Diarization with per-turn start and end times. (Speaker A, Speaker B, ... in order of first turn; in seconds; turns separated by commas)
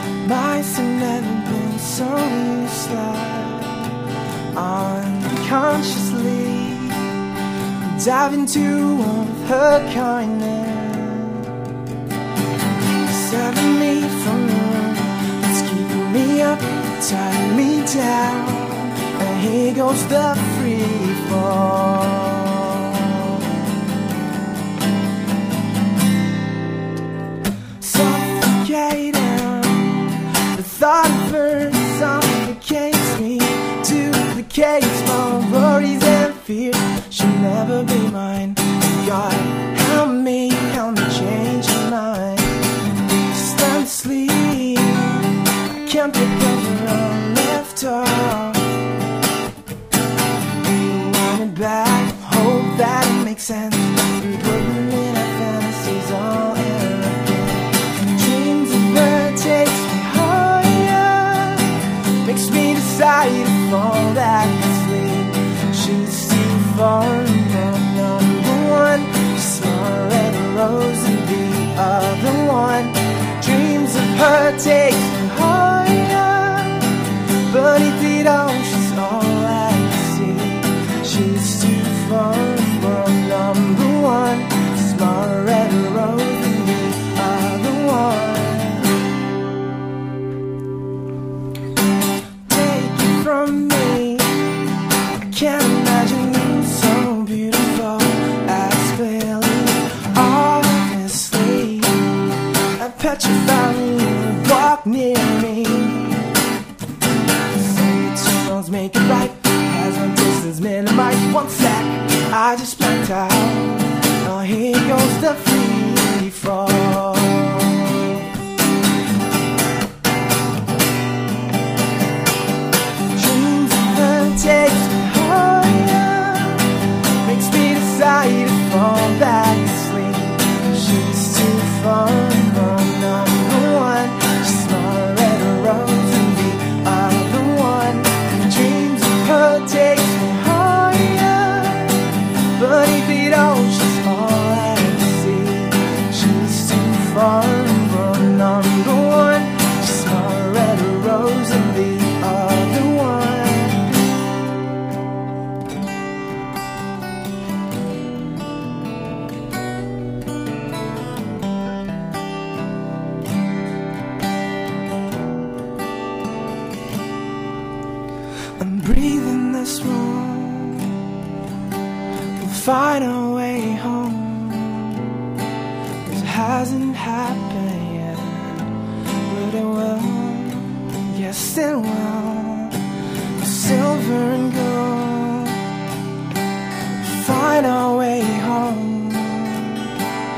Speaker A: 0.2-3.9, Speaker A: 4.5-7.1, Speaker A: 7.8-11.5, Speaker A: 13.0-23.4, Speaker A: 27.8-42.6, Speaker A: 43.3-48.7, Speaker A: 50.6-77.0, Speaker A: 77.5-89.0, Speaker A: 92.5-94.5, Speaker A: 95.3-106.3, Speaker A: 107.5-118.3, Speaker A: 123.1-126.7, Speaker A: 127.2-153.8, Speaker A: 168.6-170.9, Speaker A: 172.4-175.0, Speaker A: 176.0-178.7, Speaker A: 179.2-182.8, Speaker A: 183.4-185.6, Speaker A: 187.0-189.9